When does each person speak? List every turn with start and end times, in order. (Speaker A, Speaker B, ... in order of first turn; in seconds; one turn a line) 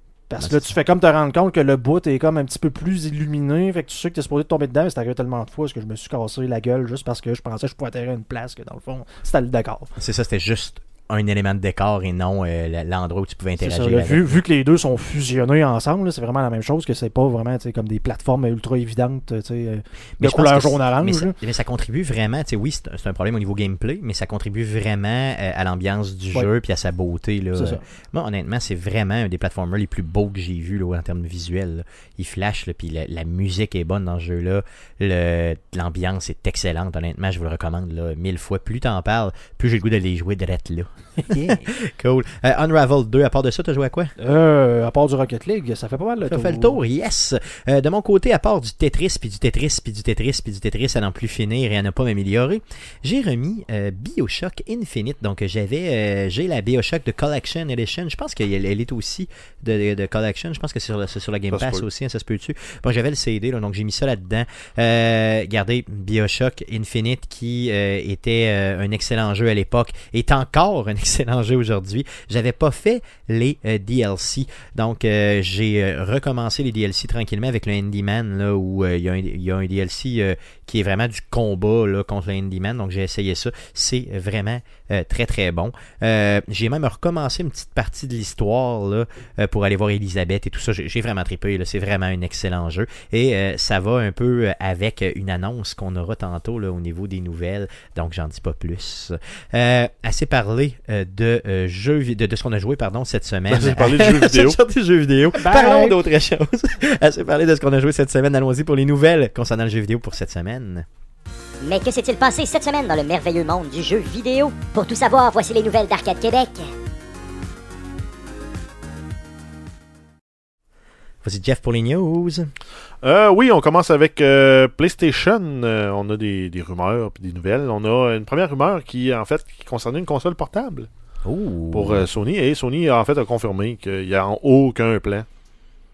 Speaker A: 0.3-9.9
Speaker B: 0.4-0.7
Speaker B: 10.0-14.4
Speaker A: 13.6-21.4
Speaker B: 20.2-44.1
Speaker A: 27.5-27.8
Speaker A: 41.2-41.7
Speaker A: 44.2-46.8
Speaker B: 46.2-110.8
Speaker C: 61.5-61.8
Speaker C: 103.5-104.6
Speaker A: 105.3-106.0
Speaker D: 111.6-116.7
Speaker B: 121.2-122.5
Speaker C: 123.0-130.9
Speaker B: 131.2-132.1
Speaker C: 131.7-135.3